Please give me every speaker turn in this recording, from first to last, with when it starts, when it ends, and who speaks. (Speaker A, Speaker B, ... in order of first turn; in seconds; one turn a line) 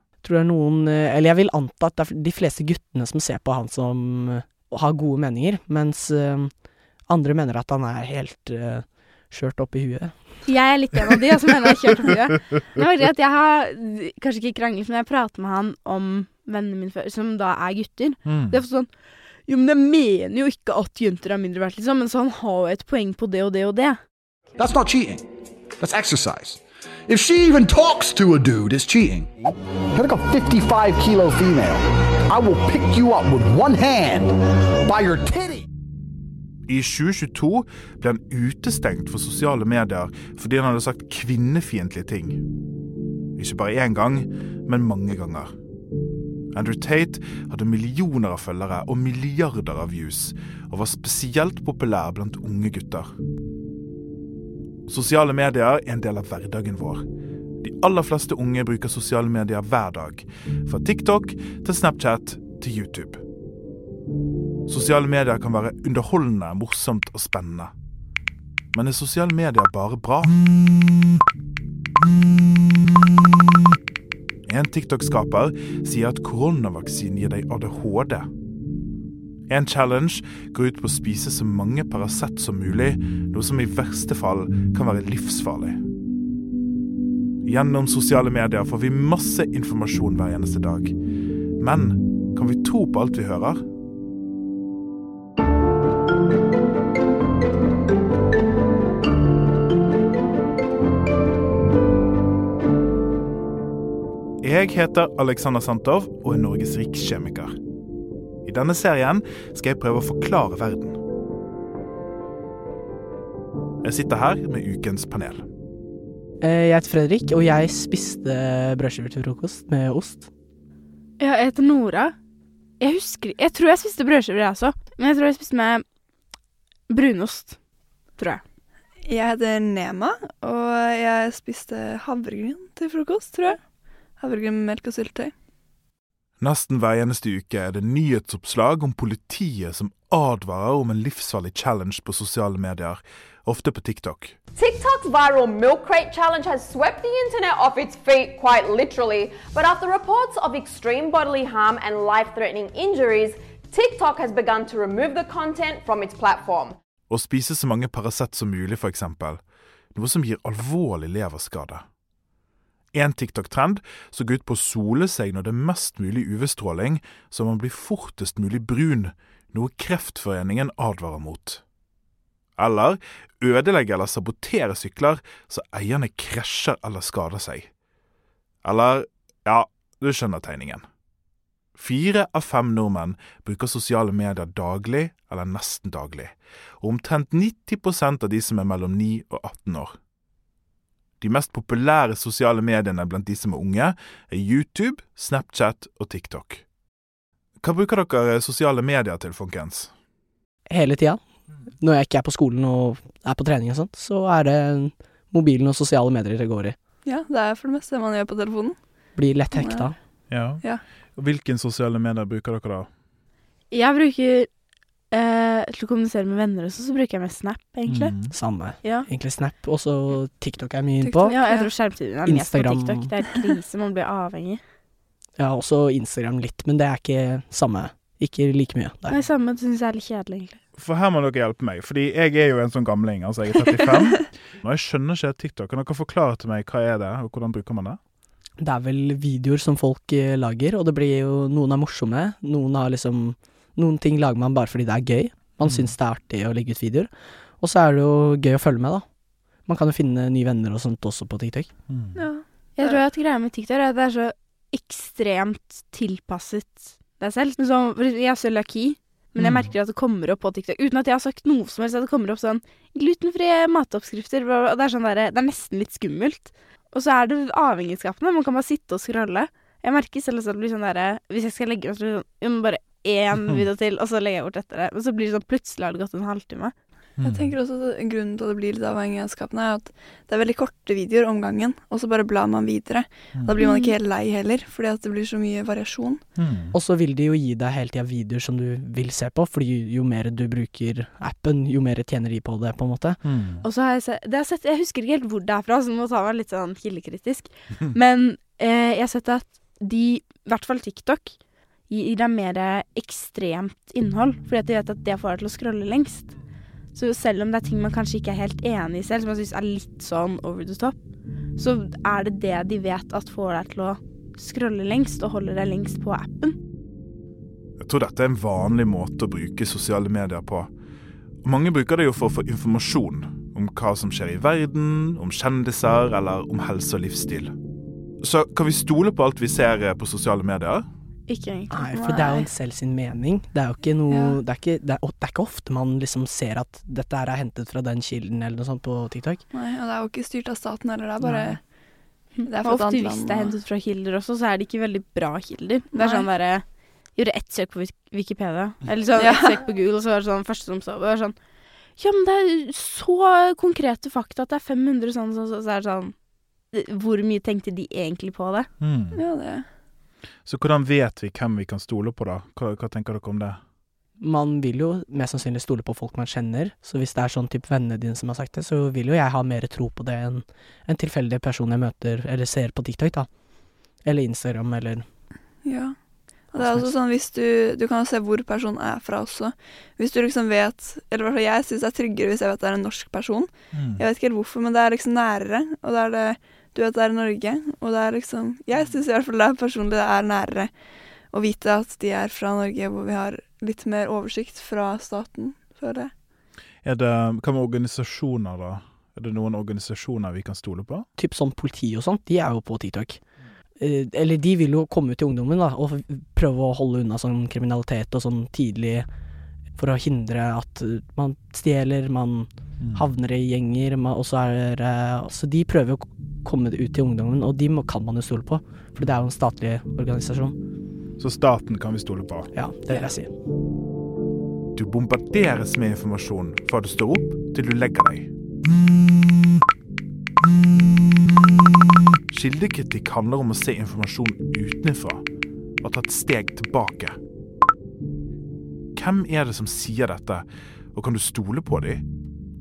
Speaker A: 0.2-6.5
Speaker A: 7.1-10.4
Speaker B: 10.5-18.9
Speaker C: 18.3-18.6
Speaker B: 19.5-24.0
Speaker D: 24.6-25.2
Speaker D: 25.8-29.3
Speaker D: 29.9-34.3
Speaker D: 34.9-35.6
Speaker C: 36.7-42.4
Speaker C: 43.4-45.5
Speaker C: 46.5-53.1
Speaker C: 54.9-57.1
Speaker C: 57.6-63.2
Speaker C: 64.7-67.7
Speaker C: 68.7-70.4
Speaker C: 74.5-78.3
Speaker C: 79.5-85.8
Speaker C: 87.4-91.0
Speaker C: 91.6-93.6
Speaker C: 104.4-107.5
Speaker C: 108.4-111.0
Speaker C: 113.8-115.5
Speaker A: 116.4-120.3
Speaker B: 121.2-122.2
Speaker B: 122.8-125.8
Speaker B: 126.9-127.6
Speaker E: 129.1-133.6
Speaker E: 134.2-135.3
Speaker C: 136.4-144.4
Speaker F: 144.6-156.8
Speaker C: 157.1-159.4
Speaker C: 159.9-161.8
Speaker C: 162.9-171.6
Speaker C: 172.6-177.7
Speaker C: 178.6-180.8
Speaker C: 181.8-190.0
Speaker C: 191.2-196.6
Speaker C: 197.6-199.9
Speaker A: 200.7-201.2
Speaker A: 201.8-206.8
Speaker E: 207.1-208.8
Speaker A: 209.2-209.9
Speaker E: 209.5-209.9
Speaker C: 210.3-210.6
Speaker C: 211.2-212.9
Speaker B: 213.7-214.5
Speaker B: 215.1-218.1
Speaker C: 217.9-218.3
Speaker A: 218.3-221.3
Speaker E: 221.0-221.7
Speaker B: 221.3-224.6
Speaker A: 222.2-223.1
Speaker A: 225.4-229.2
Speaker B: 229.1-230.6
Speaker C: 230.8-238.0
Speaker A: 238.6-247.1
Speaker C: 245.6-245.9
Speaker A: 247.6-249.1
Speaker A: 249.7-251.7
Speaker C: 251.9-252.2
Speaker E: 252.2-253.0
Speaker B: 252.8-276.7
Speaker C: 259.4-259.7
Speaker C: 277.2-277.5
Speaker E: 277.2-286.2
Speaker B: 283.6-283.9
Speaker C: 286.4-286.8
Speaker A: 286.7-293.2
Speaker C: 293.2-293.7
Speaker B: 293.6-301.4
Speaker B: 301.9-306.3
Speaker B: 306.9-311.0
Speaker B: 311.6-316.6
Speaker C: 317.8-320.7
Speaker C: 321.4-327.6
Speaker C: 328.2-330.9
Speaker B: 331.3-331.9
Speaker A: 331.7-339.4
Speaker E: 331.9-332.5
Speaker E: 334.1-334.4
Speaker E: 339.5-341.6
Speaker B: 342.4-346.6
Speaker E: 342.4-343.5
Speaker E: 346.0-346.3
Speaker B: 347.2-351.4
Speaker E: 349.2-349.6
Speaker B: 352.0-356.1
Speaker B: 356.7-358.7
Speaker C: 358.8-359.2
Speaker E: 359.1-359.6
Speaker C: 360.5-363.6
Speaker A: 364.2-373.3
Speaker A: 374.1-375.0
Speaker E: 375.6-375.9
Speaker E: 376.5-390.7
Speaker A: 376.6-376.9
Speaker C: 383.7-384.0
Speaker E: 391.3-396.1
Speaker C: 396.8-401.1
Speaker A: 401.2-403.2
Speaker A: 403.8-409.1
Speaker A: 409.8-420.6
Speaker C: 412.8-413.1
Speaker C: 421.2-422.5
Speaker A: 422.5-423.3
Speaker C: 424.8-428.3
Speaker C: 430.4-431.0
Speaker C: 432.3-435.2
Speaker C: 435.8-437.2
Speaker C: 439.0-442.0